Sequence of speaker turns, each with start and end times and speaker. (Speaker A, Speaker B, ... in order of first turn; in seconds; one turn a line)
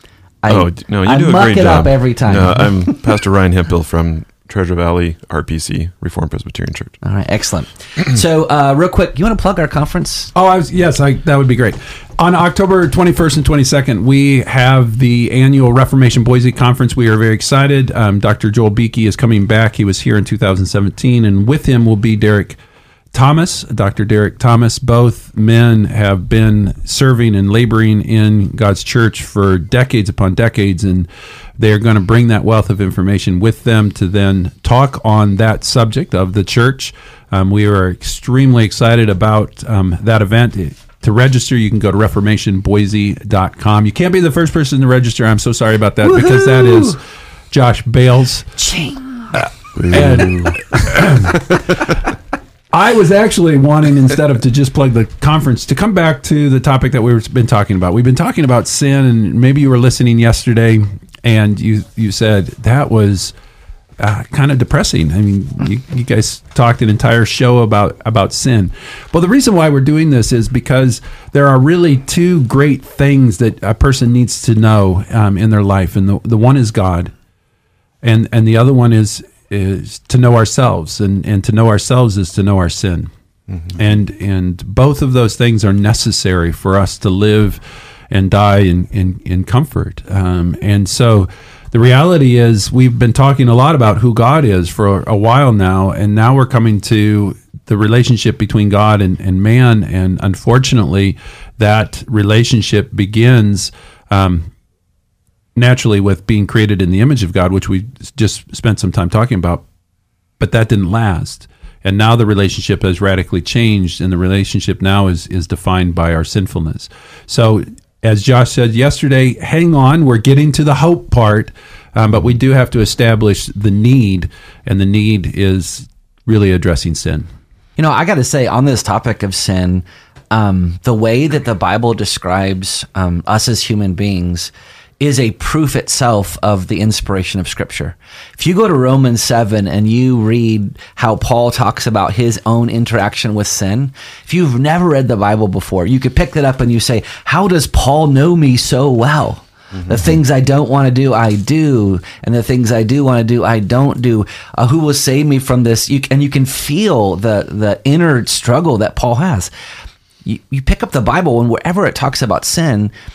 Speaker A: 0.4-2.9
Speaker B: 0.5-7.0
Speaker A: 7.0-10.3
Speaker C: 10.3-22.6
Speaker C: 23.1-48.5
Speaker A: 46.1-46.9
Speaker A: 48.6-49.1
Speaker C: 49.3-52.0
Speaker C: 52.7-63.3
Speaker C: 64.0-77.1
Speaker C: 78.0-83.1
Speaker C: 83.8-104.5
Speaker C: 105.5-109.6
Speaker C: 110.4-127.3
Speaker A: 127.8-159.5
Speaker A: 160.2-162.9